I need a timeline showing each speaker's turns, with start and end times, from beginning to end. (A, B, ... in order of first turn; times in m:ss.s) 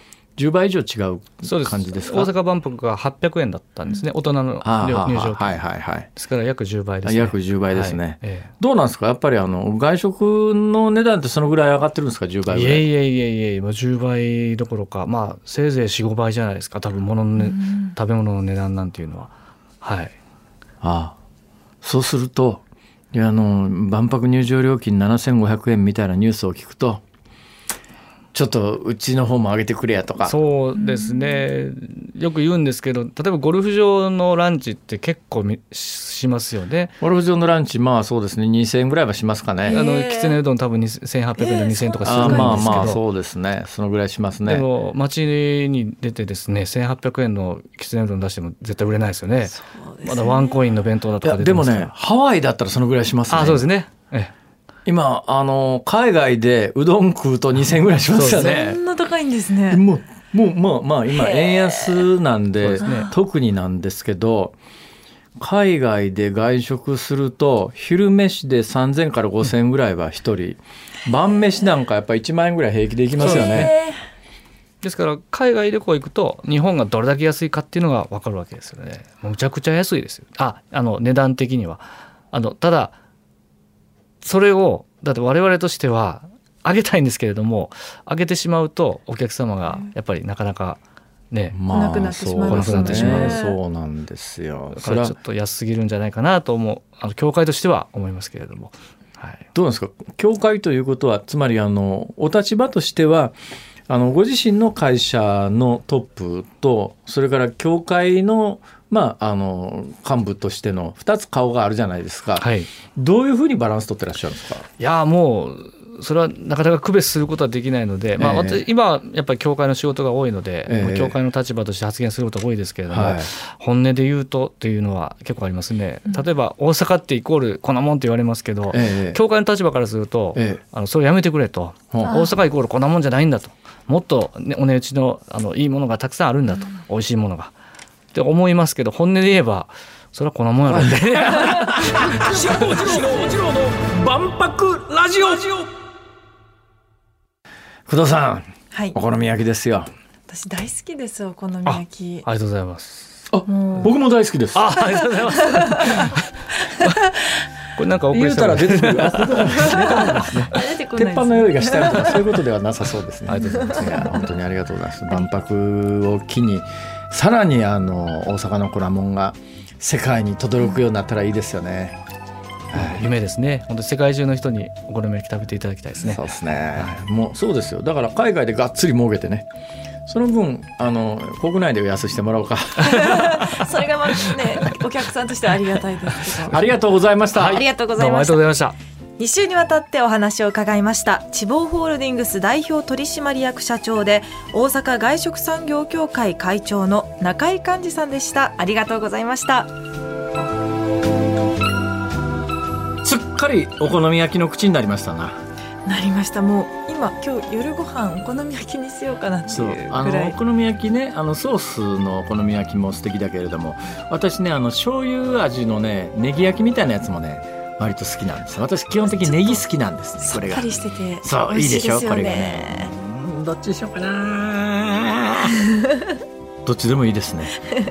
0:00.4-0:02.3 A
0:01.4-0:05.6 B
0:04.6-0:06.1 A
0:06.2-0:08.5 B
0:07.0-0:12.8 A
0:12.5-0:20.2 B
0:17.5-0:17.9 C
0:20.8-0:21.2 A
0:21.8-0:27.0 A
0:28.3-0:30.4 A
0:30.2-0:37.0 B
0:30.7-0:31.4 C
0:37.0-0:39.8 A
0:39.6-0:40.4 C
0:39.7-0:43.0 B
0:41.4-0:43.0 C
0:42.0-0:44.7 A
0:44.4-0:51.9 B
0:49.5-0:50.6 C
0:51.2-0:53.7 A
0:53.3-0:54.3 B
0:54.9-0:58.8 A
0:58.1-0:58.7 B
0:58.2-0:59.8 C
0:59.7-1:04.6 A
1:01.1-1:02.0 C
1:02.6-1:03.2 B
1:02.8-1:03.1 C
1:05.4-1:13.7 A
1:13.2-1:13.7 B
1:13.2-1:14.0 C
1:14.8-1:22.9 B
1:24.2-1:31.6 B
1:31.5-1:35.2 A
1:31.7-1:33.6 C
1:32.4-1:33.4 B
1:34.7-1:39.5 B
1:39.5-1:43.3 A
1:43.9-1:54.6 A
1:52.4-1:52.7 B
1:54.8-2:17.5 B
1:58.2-1:58.6 A
2:00.7-2:01.2 A
2:02.9-2:03.3 A
2:08.7-2:09.2 A
2:10.4-2:10.6 A
2:11.9-2:12.2 A
2:18.1-2:22.3 B
2:20.7-2:25.7 A
2:22.8-2:23.1 C
2:27.9-2:29.9 A
2:30.3-2:32.3 C
2:31.7-2:33.3 B
2:33.3-2:34.7 A
2:33.5-2:33.9 C
2:34.5-2:37.1 B
2:35.3-2:36.0 C
2:37.7-2:40.5 B
2:38.1-2:52.0 A
2:39.6-2:42.3 C
2:43.3-2:44.2 B
2:52.7-2:53.0 A
2:52.7-2:56.2 B
2:56.0-2:59.5 A
3:00.1-3:03.4 A
3:02.8-3:06.6 C
3:03.0-3:03.5 B
3:06.5-3:07.6 A
3:07.4-3:08.8 B
3:07.5-3:08.4 C
3:09.2-3:19.7 C
3:23.0-3:25.4 A
3:25.9-3:30.4 C
3:29.5-3:45.7 A
3:39.1-3:39.6 C
3:40.2-3:42.9 C
3:46.6-3:47.6 A